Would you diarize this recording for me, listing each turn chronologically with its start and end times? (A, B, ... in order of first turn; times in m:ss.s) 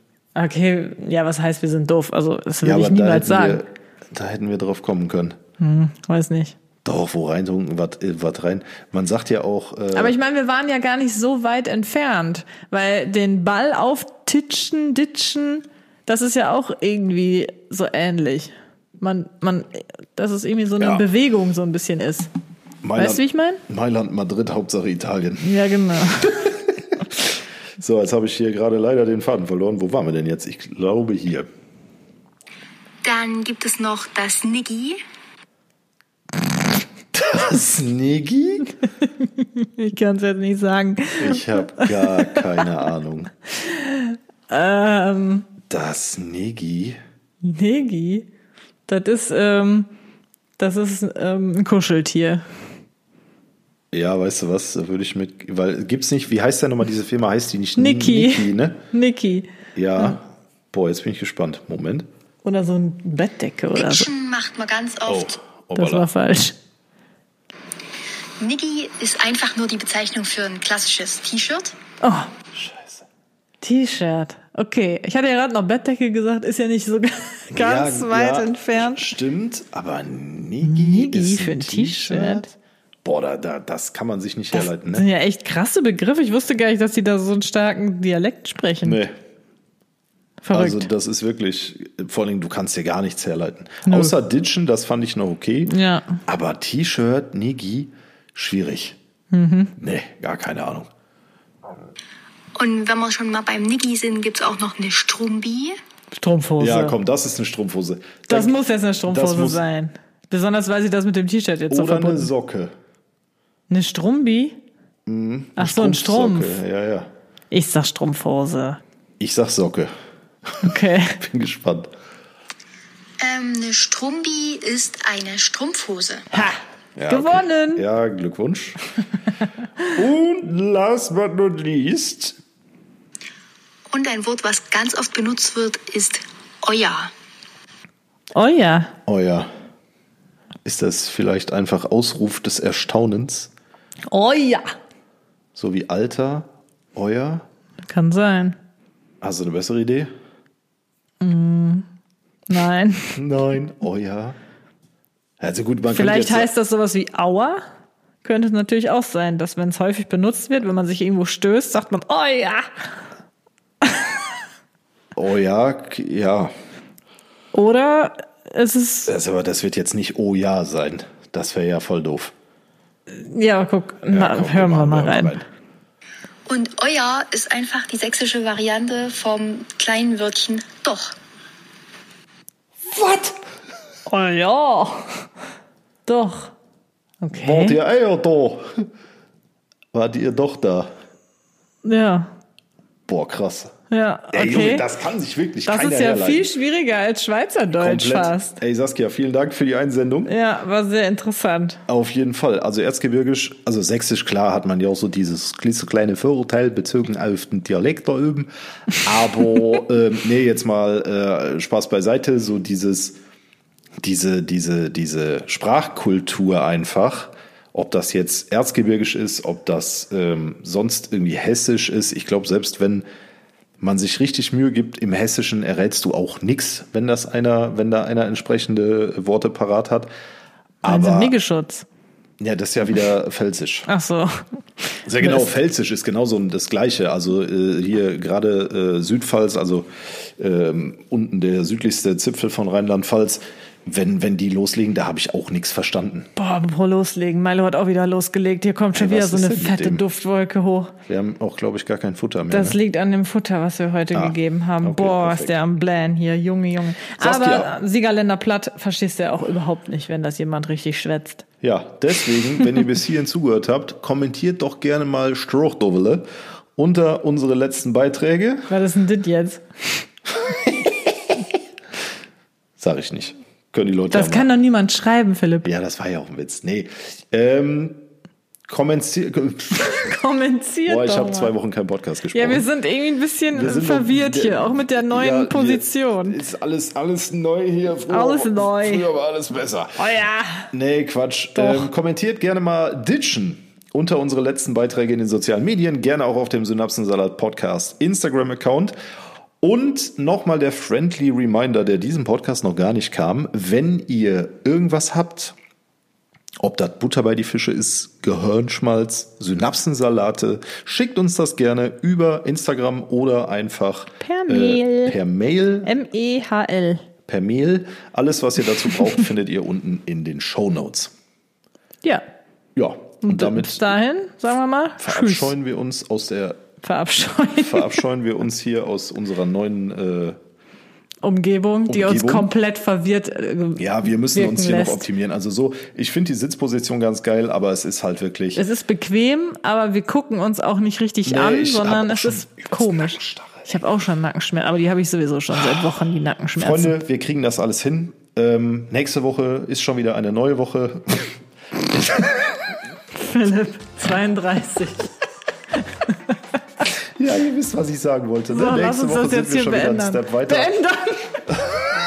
0:00.3-0:03.6 A
0:02.6-0:05.4 B
0:05.6-0:06.6 A
0:06.8-0:10.1 B
0:09.9-0:22.3 A
0:20.8-0:21.0 B
0:22.8-0:25.6 B
0:23.0-0:23.6 A
0:25.4-0:26.5 A
0:26.2-0:27.2 B
0:27.8-0:31.5 B
0:33.0-0:35.0 C
0:37.1-0:38.7 B
0:39.0-0:42.7 A
0:41.2-0:43.3 B
0:43.5-0:45.5 A
0:45.7-0:47.0 B
0:47.4-0:48.3 A
0:48.9-0:49.9 A
0:50.6-0:52.5 A
0:53.9-0:58.8 B
0:57.8-1:00.2 A
0:59.7-1:02.1 B
1:02.4-1:04.1 A
1:03.8-1:05.4 C
1:05.0-1:06.1 B
1:05.7-1:06.6 A
1:08.4-1:11.8 C
1:12.0-1:12.3 A
1:12.5-1:13.0 B
1:13.6-1:19.1 A
1:17.5-1:22.5 B
1:20.6-1:22.5 A
1:23.0-1:25.0 B
1:24.5-1:29.0 A
1:28.8-1:29.1 B
1:30.4-1:30.9 A
1:30.5-1:35.7 B
1:33.8-1:34.1 A
1:35.7-1:36.2 A
1:36.2-1:39.0 B
1:39.3-1:39.7 A
1:39.8-1:40.9 B
1:42.5-1:45.8 C
1:46.1-1:47.0 A
1:46.6-1:48.5 B
1:48.3-1:52.3 A
1:49.0-1:49.6 B
1:51.7-1:52.7 B
1:53.7-1:54.6 A
1:55.1-1:57.1 B
1:55.6-1:56.6 A
1:57.5-1:58.8 A
1:59.2-1:59.9 B
2:00.5-2:01.9 B
2:00.6-2:01.2 A
2:03.2-2:06.3 C
2:06.3-2:07.8 A
2:06.3-2:08.8 B
2:09.9-2:12.4 B
2:13.9-2:17.1 C
2:18.3-2:18.9 A
2:19.0-2:19.5 B
2:20.6-2:23.5 B
2:24.1-2:24.7 A
2:25.5-2:27.4 B
2:27.8-2:28.6 A
2:29.2-2:30.1 B
2:31.2-2:31.9 A
2:32.5-2:33.2 A
2:33.1-2:34.4 B
2:35.4-2:36.5 B
2:35.9-2:37.6 A
2:38.2-2:42.7 A
2:43.8-2:44.2 A
2:45.2-2:46.5 B
2:47.5-2:49.1 A
2:49.0-2:52.3 B
2:53.1-2:55.4 A
2:54.1-2:55.4 B
2:56.5-3:01.1 C
3:02.9-3:03.4 B
3:04.0-3:05.3 A
3:06.0-3:06.5 A
3:07.2-3:07.8 A
3:07.3-3:08.9 B
3:09.9-3:10.9 B
3:11.8-3:12.3 A
3:13.1-3:13.7 B
3:13.9-3:14.9 A
3:14.3-3:16.5 B
3:15.6-3:18.6 A
3:17.8-3:20.3 B
3:20.2-3:21.8 A
3:21.9-3:33.2 B
3:34.0-3:43.0 B
3:43.8-3:50.1 B
3:50.8-3:51.3 B
3:50.8-3:51.8 A
3:52.4-3:53.9 B
3:53.9-3:55.5 A
3:55.0-4:06.3 B
4:06.4-4:10.9 A
4:08.9-4:10.0 B
4:11.1-4:12.8 B
4:12.5-4:21.4 A
4:14.1-4:15.6 B
4:17.2-4:17.7 B
4:21.6-4:26.2 B
4:26.8-4:28.7 B
4:28.7-4:29.6 A
4:30.3-4:31.1 B
4:32.8-4:34.5 B
4:34.1-4:35.7 A
4:35.6-4:38.0 B
4:38.7-4:40.1 B
4:39.7-4:41.5 A
4:40.9-4:42.6 B
4:42.3-4:46.4 A
4:43.5-4:50.0 B
4:48.1-4:49.1 A
4:50.0-4:50.7 A
4:50.7-4:58.9 B
4:51.5-4:51.9 A
4:59.6-5:05.5 B
5:06.6-5:15.9 B
5:14.2-5:15.2 A
5:15.8-5:17.0 A
5:17.3-5:21.1 B
5:22.8-5:23.9 B
5:23.2-5:25.5 A
5:25.0-5:26.6 B
5:26.8-5:28.0 A
5:27.5-5:30.4 B
5:31.2-5:35.1 A
5:31.9-5:32.5 B
5:33.8-5:38.6 B
5:38.5-5:46.9 A
5:41.2-5:43.7 B
5:45.5-5:45.9 B
5:46.6-5:51.3 B
5:51.9-5:52.2 B
5:53.1-5:55.1 A
5:55.7-5:56.4 A
5:57.2-6:00.7 B
5:58.5-6:01.6 A
6:01.5-6:01.8 B